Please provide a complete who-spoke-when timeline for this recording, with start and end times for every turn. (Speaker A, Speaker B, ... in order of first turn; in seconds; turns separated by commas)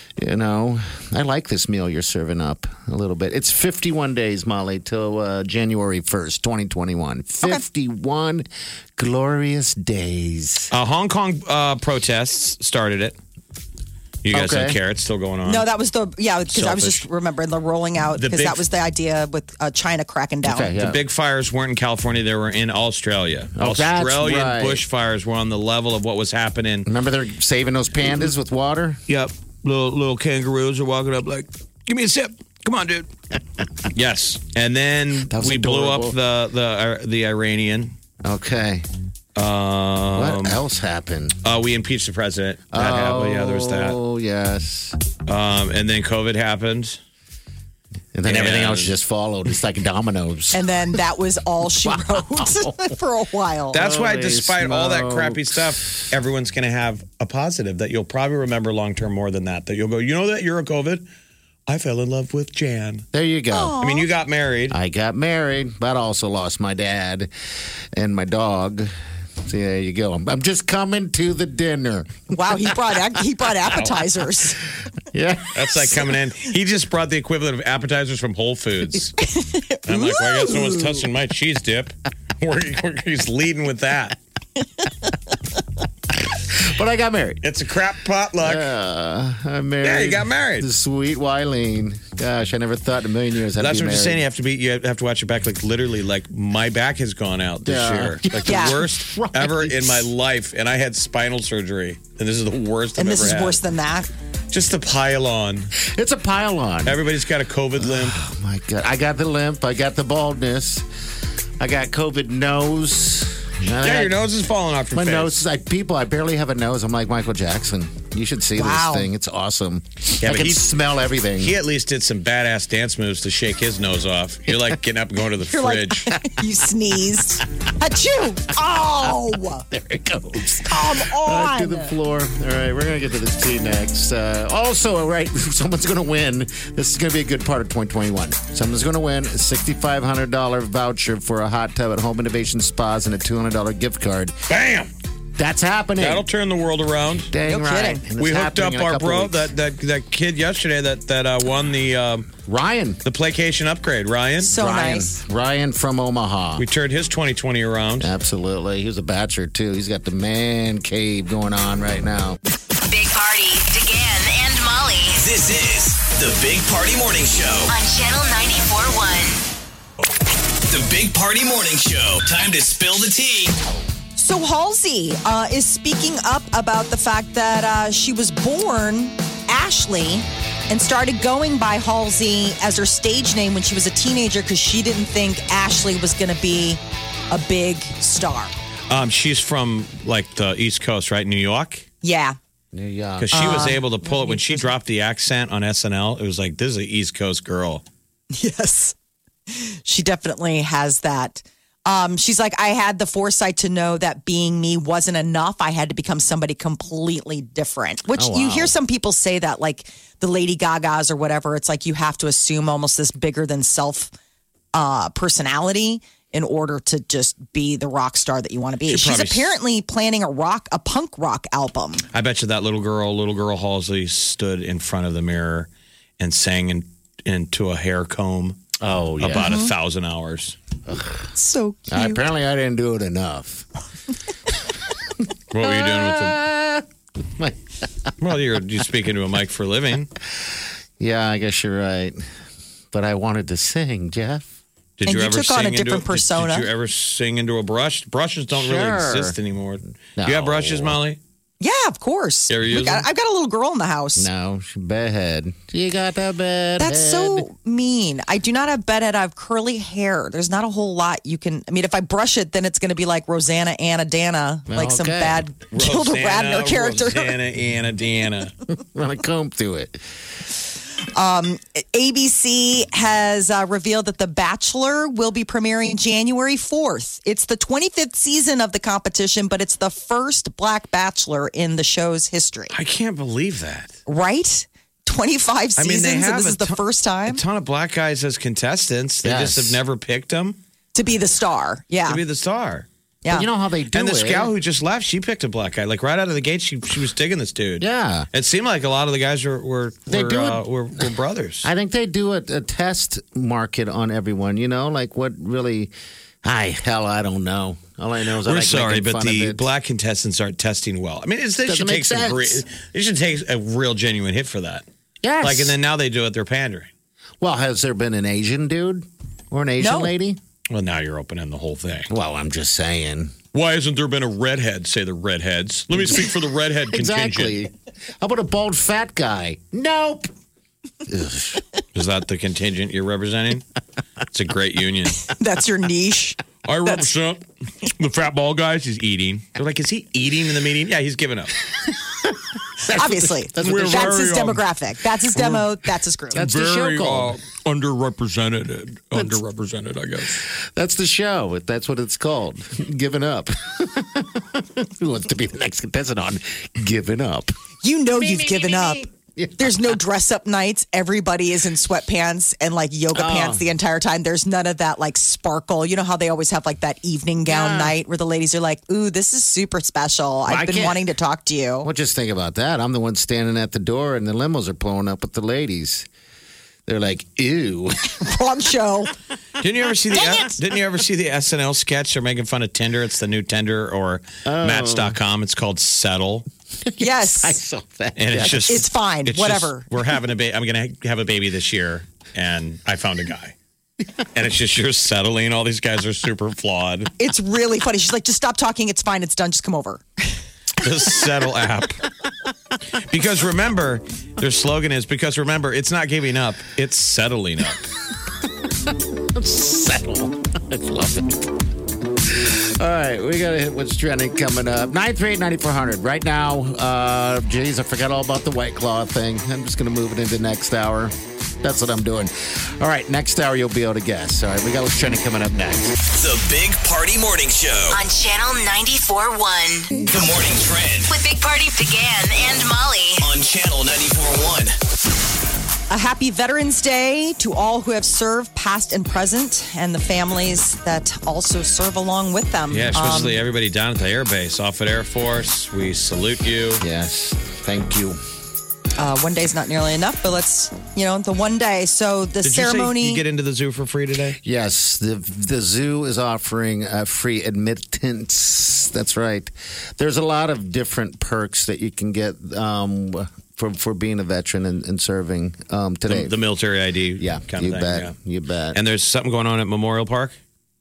Speaker A: 0.2-10.7, Speaker B: 10.7-13.2, Speaker B: 14.2-15.7, Speaker A: 14.3-14.8, Speaker C: 15.4-20.7, Speaker B: 16.5-17.0, Speaker B: 18.2-18.6, Speaker A: 20.4-21.0, Speaker B: 20.8-26.9, Speaker A: 23.6-24.8, Speaker A: 26.9-29.0, Speaker B: 29.1-33.1, Speaker B: 33.9-37.9, Speaker A: 35.3-36.1, Speaker A: 38.2-38.9, Speaker B: 39.4-40.6, Speaker A: 40.1-41.4, Speaker B: 41.4-44.0, Speaker A: 42.7-45.0, Speaker B: 45.3-47.0, Speaker A: 48.1-50.7, Speaker B: 48.2-48.9, Speaker C: 50.5-53.8, Speaker A: 51.8-52.9, Speaker A: 53.7-55.8, Speaker B: 53.7-61.0, Speaker B: 61.7-63.0, Speaker A: 63.1-63.8, Speaker C: 63.5-64.1, Speaker B: 63.8-64.8, Speaker A: 64.7-67.3, Speaker A: 67.9-68.9, Speaker A: 69.5-72.6, Speaker C: 72.3-74.6, Speaker A: 75.1-76.0, Speaker B: 75.5-79.1, Speaker C: 79.2-80.7, Speaker B: 79.8-84.2, Speaker A: 86.3-87.4, Speaker B: 87.4-88.7, Speaker A: 88.4-94.2, Speaker B: 89.8-90.7, Speaker B: 93.6-103.6, Speaker A: 97.6-100.1, Speaker C: 98.4-98.8, Speaker C: 103.0-104.1, Speaker B: 104.5-105.7, Speaker A: 105.8-107.0, Speaker B: 106.8-108.2, Speaker A: 107.8-110.8, Speaker A: 111.6-114.1, Speaker B: 113.8-115.4, Speaker A: 114.9-121.5, Speaker C: 118.5-119.1, Speaker B: 120.2-120.6, Speaker B: 121.4-126.1, Speaker C: 125.5-129.7, Speaker A: 129.0-144.3, Speaker C: 130.6-131.9, Speaker B: 144.5-144.9, Speaker A: 145.4-146.2, Speaker B: 146.0-147.3, Speaker A: 147.2-149.5, Speaker C: 147.4-148.0, Speaker B: 148.2-152.4, Speaker A: 152.4-153.0, Speaker B: 153.0-154.5, Speaker C: 154.4-155.2, Speaker A: 154.4-156.6, Speaker B: 156.6-158.1, Speaker A: 158.0-162.4, Speaker D: 162.8-165.2, Speaker E: 165.2-167.7, Speaker D: 167.7-169.4, Speaker E: 170.7-173.6, Speaker C: 174.2-188.6, Speaker B: 188.9-191.8, Speaker C: 192.0-192.4, Speaker A: 192.7-193.8, Speaker B: 193.2-197.8, Speaker C: 193.3-194.6, Speaker C: 198.3-198.9, Speaker C: 199.5-214.1, Speaker A: 208.1-208.7, Speaker C: 214.7-222.0, Speaker B: 218.9-219.5, Speaker B: 222.1-228.6, Speaker A: 228.8-229.6, Speaker B: 229.2-230.6, Speaker C: 229.3-229.7, Speaker A: 230.9-231.2, Speaker C: 231.3-232.2, Speaker A: 231.9-233.7, Speaker B: 235.5-236.4, Speaker A: 235.6-236.8, Speaker B: 238.2-240.1, Speaker A: 241.0-242.2, Speaker A: 242.9-244.5, Speaker B: 245.0-251.2, Speaker C: 245.1-246.7, Speaker A: 248.5-249.3, Speaker A: 250.2-251.0, Speaker C: 251.6-254.3, Speaker B: 252.5-253.1, Speaker A: 254.2-257.5, Speaker C: 256.8-267.3, Speaker A: 264.7-265.4, Speaker B: 265.7-268.5, Speaker A: 268.8-270.0, Speaker C: 271.1-282.7, Speaker B: 282.7-283.9, Speaker C: 284.1-287.4, Speaker B: 285.8-290.6, Speaker A: 289.2-289.8, Speaker C: 290.9-292.2, Speaker B: 292.1-292.9, Speaker A: 293.3-294.5, Speaker B: 293.9-301.7, Speaker A: 297.8-298.3, Speaker A: 300.1-300.6, Speaker A: 301.6-309.7, Speaker B: 308.4-314.8, Speaker A: 311.6-312.6, Speaker A: 315.2-315.7, Speaker B: 315.4-316.9, Speaker A: 317.4-320.4, Speaker C: 319.8-320.1, Speaker B: 320.7-322.1, Speaker A: 322.1-323.3, Speaker B: 323.5-327.6, Speaker A: 325.9-330.3, Speaker A: 331.0-331.6, Speaker B: 331.9-333.6, Speaker B: 334.3-335.2, Speaker C: 335.2-337.0, Speaker B: 336.6-341.5, Speaker A: 342.8-344.1, Speaker C: 342.9-346.4, Speaker B: 343.6-344.6, Speaker A: 346.3-347.4, Speaker B: 346.4-350.4, Speaker A: 350.5-357.5, Speaker C: 357.8-359.1, Speaker A: 358.2-359.9, Speaker C: 359.6-371.9, Speaker A: 363.1-363.6, Speaker A: 367.4-367.9, Speaker A: 370.4-371.1, Speaker A: 371.8-376.1, Speaker A: 376.9-378.2, Speaker C: 378.2-379.1, Speaker B: 379.6-386.4, Speaker C: 380.2-380.5, Speaker A: 384.4-385.2, Speaker A: 386.9-388.8, Speaker C: 387.0-387.6, Speaker B: 388.1-393.5, Speaker C: 388.6-389.9, Speaker B: 394.3-397.1, Speaker C: 397.2-400.3, Speaker B: 400.8-402.0, Speaker B: 403.1-407.9, Speaker A: 409.2-411.6, Speaker A: 412.2-425.9, Speaker E: 426.1-428.0, Speaker D: 427.9-429.9, Speaker E: 430.1-431.1, Speaker D: 431.1-433.2, Speaker E: 433.2-434.8, Speaker C: 435.9-443.4, Speaker B: 442.7-446.8, Speaker A: 446.8-448.2, Speaker C: 449.0-453.2, Speaker B: 452.4-454.4, Speaker A: 454.4-466.3, Speaker B: 466.1-468.1, Speaker A: 467.2-468.8, Speaker B: 468.7-470.4